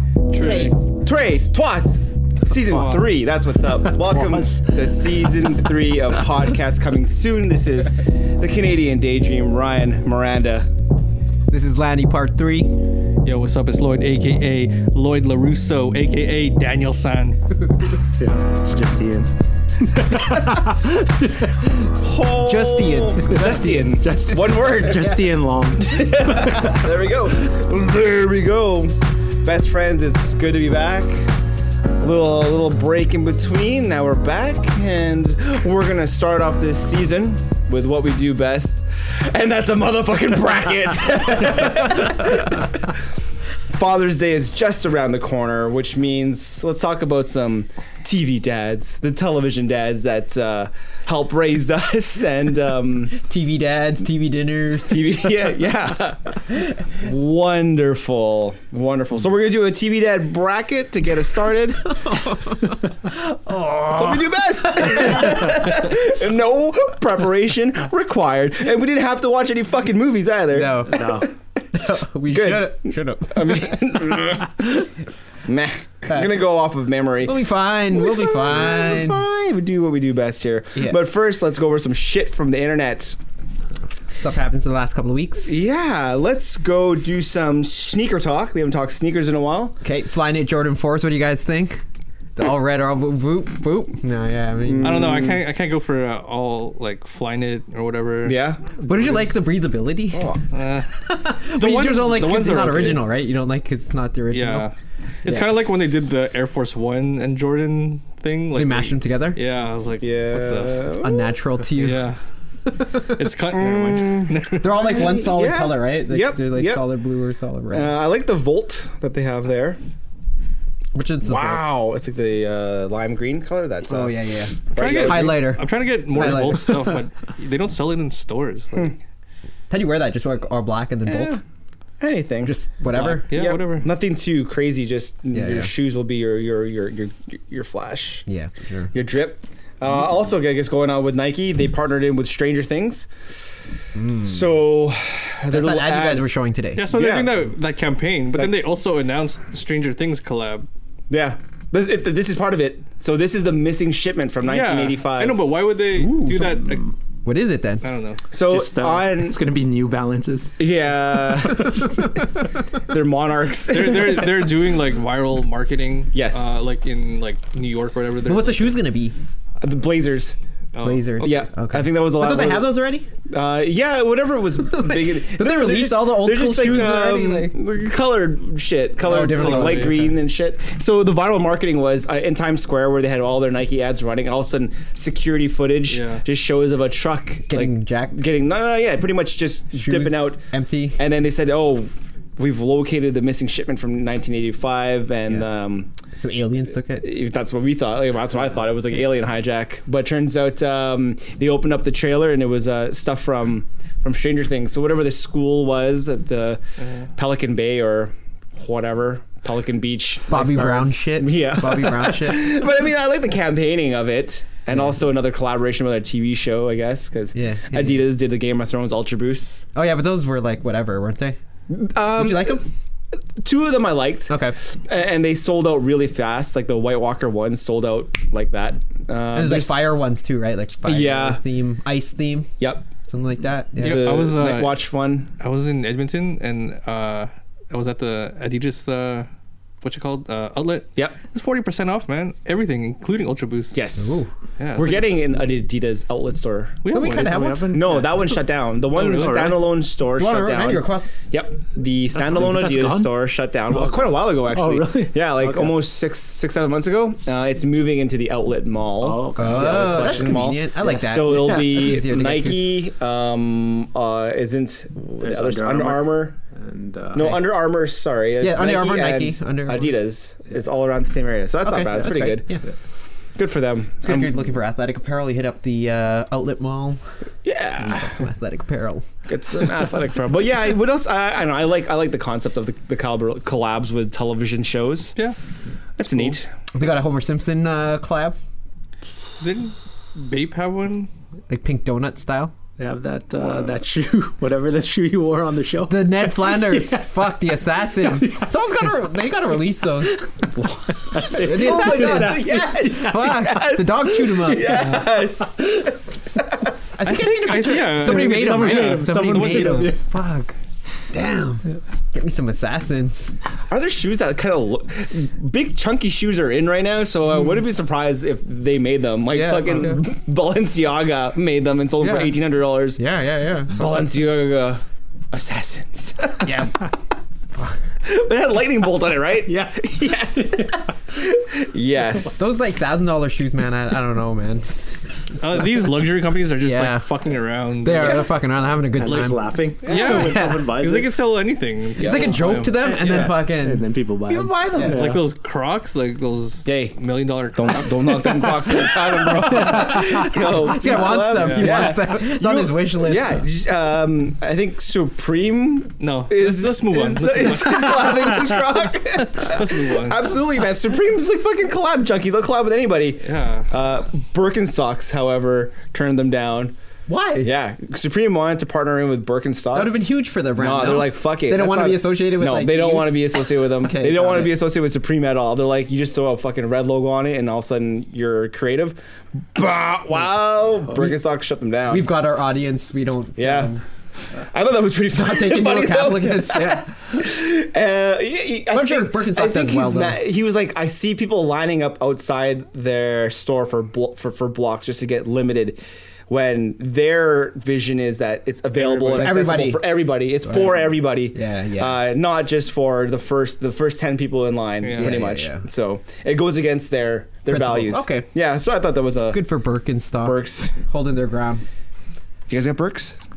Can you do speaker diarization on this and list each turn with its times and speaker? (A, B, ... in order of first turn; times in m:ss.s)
0:00.3-0:00.8 A
0:00.3-0:00.8 B
0:00.6-0:10.7 C
0:02.5-0:03.1 A
0:04.2-0:04.5 D
0:11.5-0:12.8 B
0:13.2-0:17.4 A
0:18.2-0:19.3 D
0:19.8-0:21.7 D
0:21.9-0:25.2 C
0:22.4-0:24.0 B
0:23.3-0:26.9 D
0:25.8-0:31.3 C
0:32.0-0:43.0 C
0:43.7-0:53.1 C
0:53.2-0:55.2 B
0:54.9-1:02.2 C
1:03.1-1:05.5 B
1:03.9-1:11.2 C
1:10.5-1:13.8 B
1:10.9-1:11.3 D
1:12.3-1:14.9 C
1:15.5-1:17.4 C
1:17.2-1:19.2 B
1:17.9-1:23.2 C
1:20.8-1:21.0 B
1:24.2-1:25.6 B
1:25.4-1:29.8 C
1:29.8-1:31.8 B
1:32.4-1:35.2 B
1:34.6-1:35.4 C
1:34.8-1:39.3 A
1:38.2-1:38.6 C
1:38.8-1:40.3 B
1:40.1-1:40.4 C
1:40.5-1:40.9 A
1:41.0-1:44.7 B
1:41.6-1:43.0 A
1:44.3-1:50.8 A
1:48.5-1:49.4 B
1:50.0-1:51.4 C
1:51.0-1:52.1 B
1:51.8-1:52.2 A
1:52.7-1:53.2 B
1:53.0-1:54.8 A
1:53.5-1:56.9 C
1:54.5-1:58.0 B
1:57.7-1:59.8 C
2:00.9-2:01.8 B
2:01.2-2:05.6 C
2:03.9-2:06.9 B
2:04.8-2:08.9 A
2:09.7-2:11.4 B
2:11.1-2:11.4 C
2:12.0-2:18.2 C
2:12.4-2:13.3 B
2:13.3-2:13.9 A
2:15.3-2:15.7 B
2:18.3-2:18.9 B
2:18.9-2:23.1 C
2:24.0-2:24.4 B
2:24.2-2:26.3 C
2:25.5-2:26.9 B
2:26.8-2:30.7 A
2:26.9-2:27.5 C
2:31.1-2:35.4 C
2:34.4-2:36.9 A
2:35.9-2:36.7 B
2:37.2-2:37.8 B
2:37.8-2:38.2 A
2:38.3-2:39.4 C
2:38.4-2:40.5 D
2:40.6-2:42.2 C
2:42.7-2:44.4 C
2:43.7-2:48.8 A
2:46.1-2:46.5 C
2:48.3-2:49.2 B
2:49.6-2:50.4 C
2:50.7-2:51.5 A
2:50.8-2:53.1 B
2:51.2-3:10.4 C
2:54.8-2:57.6 B
2:59.0-3:00.2 B
2:59.1-3:00.1 A
3:05.9-3:06.2 A
3:07.5-3:08.2 B
3:09.7-3:11.0 B
3:11.0-3:15.9 C
3:16.2-3:17.1 B
3:17.0-3:26.6 C
3:26.8-3:27.1 A
3:27.2-3:39.6 C
3:30.3-3:32.6 B
3:37.4-3:38.0 B
3:39.8-3:41.4 B
3:41.7-3:42.6 C
3:42.0-3:42.6 B
3:43.4-3:49.9 C
3:44.3-3:44.6 B
3:49.3-3:52.5 B
3:50.8-3:51.4 C
3:52.6-3:52.9 C
3:53.1-3:54.1 B
3:53.8-3:55.3 C
3:53.8-3:54.8 A
3:55.4-3:59.3 A
3:59.8-4:03.8 A
4:03.7-4:06.8 C
4:04.0-4:04.3 B
4:04.6-4:05.2 A
4:06.8-4:07.6 A
4:06.9-4:08.1 B
4:07.0-4:08.2 D
4:07.7-4:26.4 C
4:08.9-4:09.6 A
4:09.0-4:09.6 D
4:10.2-4:11.3 B
4:12.2-4:13.1 D
4:13.8-4:15.8 D
4:19.0-4:20.4 D
4:19.4-4:22.8 B
4:21.2-4:21.9 D
4:25.2-4:27.4 D
4:27.1-4:32.6 C
4:28.4-4:30.0 B
4:31.6-4:32.6 B
4:31.9-4:32.2 D
4:33.4-4:34.4 C
4:34.0-4:37.0 B
4:37.4-4:38.2 C
4:37.8-4:39.0 B
4:39.3-4:45.2 C
4:46.0-4:46.5 C
4:46.0-4:46.4 A
4:46.8-4:48.4 B
4:49.4-4:51.1 A
4:51.5-4:52.5 B
4:52.8-4:57.4 D
4:55.9-5:00.2 B
4:58.1-4:58.5 D
5:00.9-5:03.1 D
5:01.2-5:04.9 B
5:01.4-5:06.6 C
5:04.5-5:05.3 D
5:07.0-5:10.6 B
5:07.0-5:10.0 A
5:07.8-5:10.0 D
5:11.1-5:13.3 B
5:13.7-5:23.0 C
5:19.3-5:20.0 B
5:22.0-5:22.4 B
5:23.0-5:23.8 B
5:23.7-5:26.7 C
5:26.4-5:26.7 B
5:28.0-5:32.4 C
5:29.5-5:30.7 D
5:32.2-5:34.7 B
5:35.4-5:38.3 A
5:36.6-5:37.0 B
5:37.8-5:40.6 B
5:39.0-5:41.1 D
5:39.0-5:43.1 A
5:39.8-5:40.3 C
5:42.0-5:43.3 C
5:42.0-5:43.9 B
5:42.7-5:45.2 D
5:44.3-5:45.1 C
5:44.7-5:45.0 B
5:44.9-5:49.3 A
5:46.7-5:47.0 C
5:47.5-6:06.8 C
5:49.5-5:53.4 B
5:49.6-5:50.2 D
5:51.3-5:51.8 A
5:56.0-5:58.6 A
5:59.3-6:00.2 A
6:03.2-6:03.7 A
6:07.1-6:07.5 B
6:07.4-6:10.0 C
6:09.7-6:14.6 B
6:10.6-6:19.0 C
6:19.6-6:22.1 C
6:21.9-6:23.8 B
6:23.4-6:23.7 C
6:24.4-6:49.4 C
6:25.2-6:26.9 B
6:28.7-6:30.2 B
6:38.8-6:39.4 A
6:39.1-6:42.0 B
6:44.8-6:45.2 A
6:44.9-6:45.6 B
6:47.5-6:48.3 B
6:49.3-6:51.6 B
6:50.2-6:50.7 C
6:52.5-6:53.2 C